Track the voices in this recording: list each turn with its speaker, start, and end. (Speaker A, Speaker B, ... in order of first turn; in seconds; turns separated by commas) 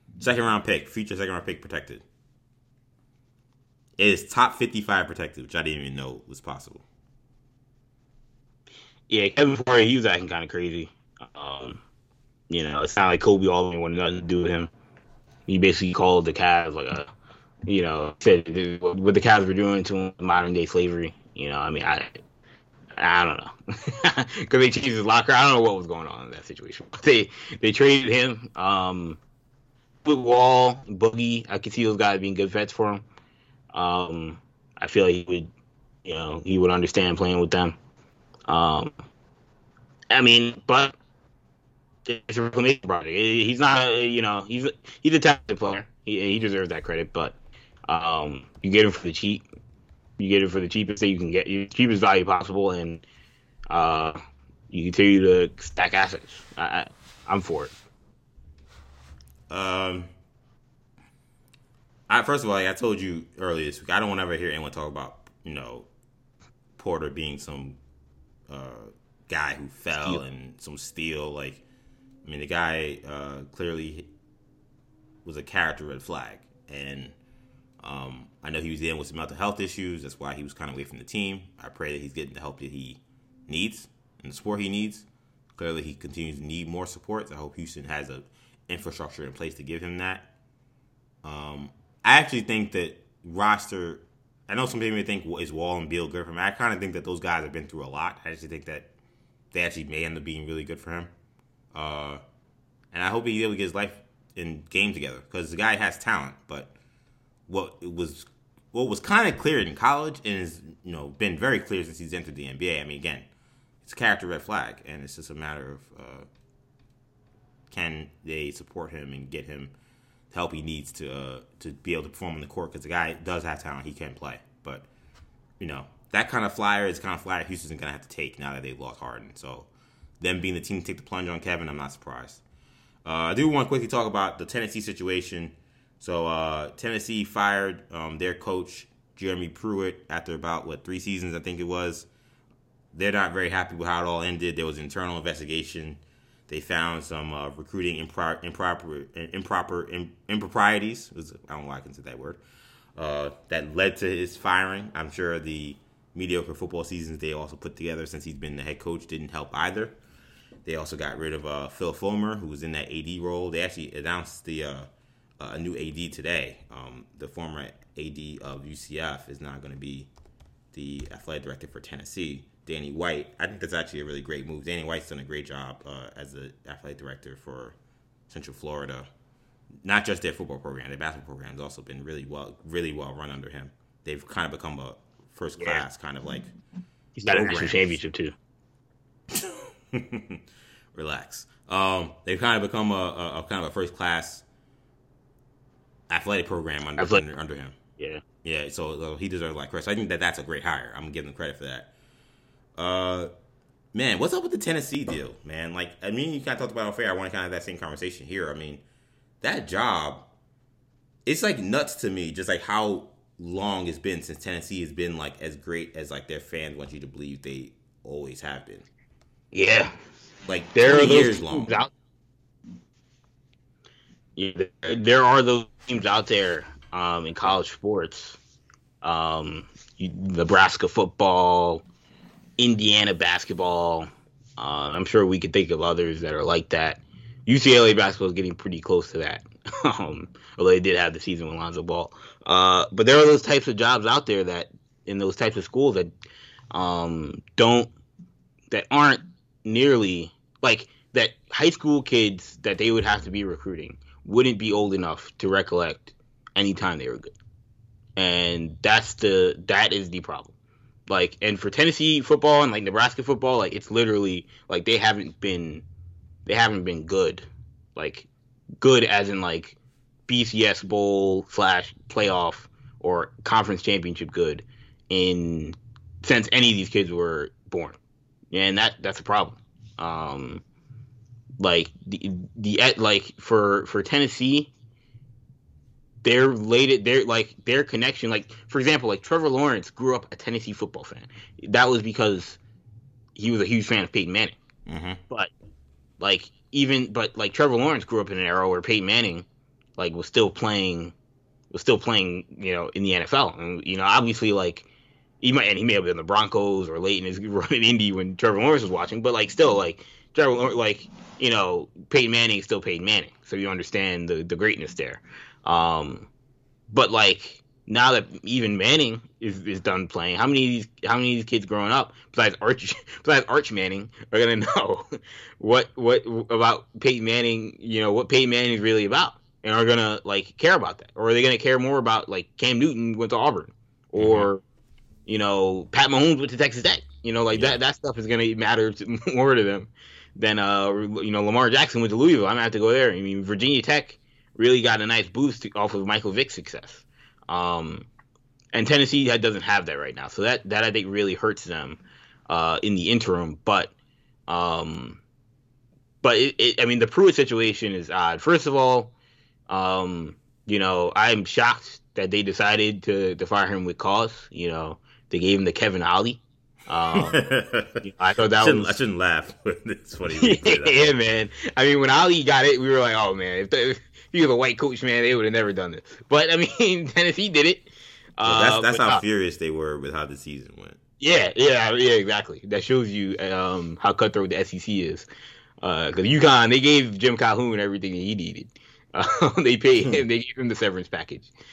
Speaker A: 0.2-2.0, Speaker A: 4.0-6.8, Speaker B: 9.1-11.8, Speaker B: 12.5-14.7, Speaker B: 15.5-17.1, Speaker B: 17.6-22.1, Speaker B: 22.9-29.2, Speaker B: 30.1-33.0, Speaker B: 33.7-35.5, Speaker B: 36.0-37.8, Speaker B: 38.5-38.9, Speaker B: 40.1-40.9, Speaker B: 42.0-49.4, Speaker B: 50.2-53.0, Speaker B: 53.7-54.2, Speaker B: 54.7-57.7, Speaker A: 59.5-60.1, Speaker A: 62.1-65.9, Speaker A: 66.8-67.8, Speaker A: 68.5-71.6, Speaker A: 72.2-74.1, Speaker A: 75.2-77.2, Speaker A: 77.8-85.1, Speaker A: 85.6-90.3, Speaker A: 91.2-98.9, Speaker A: 99.5-101.1, Speaker A: 101.7-102.2, Speaker A: 102.9-106.7, Speaker A: 107.5-113.3, Speaker A: 113.8-116.3, Speaker A: 117.7-119.7, Speaker A: 120.3-124.9, Speaker A: 125.6-129.7, Speaker A: 130.2-132.4, Speaker A: 133.1-142.1, Speaker A: 142.9-152.4, Speaker A: 152.9-159.9, Speaker A: 160.7-164.9, Speaker A: 165.4-170.1, Speaker A: 170.7-177.8, Speaker A: 178.3-179.1, Speaker A: 179.8-186.5, Speaker B: 185.6-185.8, Speaker B: 187.2-188.3, Speaker A: 187.3-188.0, Speaker A: 189.3-190.4, Speaker A: 190.9-194.4, Speaker A: 196.1-197.7, Speaker B: 197.0-197.2, Speaker B: 198.0-198.2, Speaker A: 198.4-201.9, Speaker A: 202.8-203.3, Speaker A: 203.9-208.8, Speaker A: 209.4-210.3, Speaker A: 211.3-218.9, Speaker B: 219.5-219.9, Speaker A: 220.5-221.7, Speaker B: 220.7-221.9, Speaker B: 224.4-228.4, Speaker B: 229.0-231.8, Speaker B: 232.6-246.1, Speaker B: 246.7-247.9, Speaker B: 248.7-257.3, Speaker B: 258.1-260.5, Speaker B: 261.1-265.8, Speaker B: 266.4-268.3, Speaker B: 268.8-269.8, Speaker B: 270.3-278.0, Speaker B: 278.5-280.6, Speaker B: 281.6-284.7, Speaker B: 286.2-292.6, Speaker B: 293.4-294.6, Speaker A: 294.9-295.2, Speaker B: 296.2-299.4, Speaker B: 300.0-301.1, Speaker B: 301.7-304.9, Speaker B: 305.4-316.3, Speaker B: 316.9-334.6, Speaker A: 334.1-334.5, Speaker B: 335.3-348.1, Speaker A: 337.5-337.8, Speaker B: 348.7-353.9, Speaker B: 354.5-355.2, Speaker B: 356.2-359.1, Speaker B: 359.7-367.4, Speaker A: 367.1-368.0, Speaker B: 368.0-368.9, Speaker A: 368.6-371.1, Speaker B: 370.3-379.2, Speaker A: 378.4-381.0, Speaker B: 381.2-385.3, Speaker B: 385.8-391.5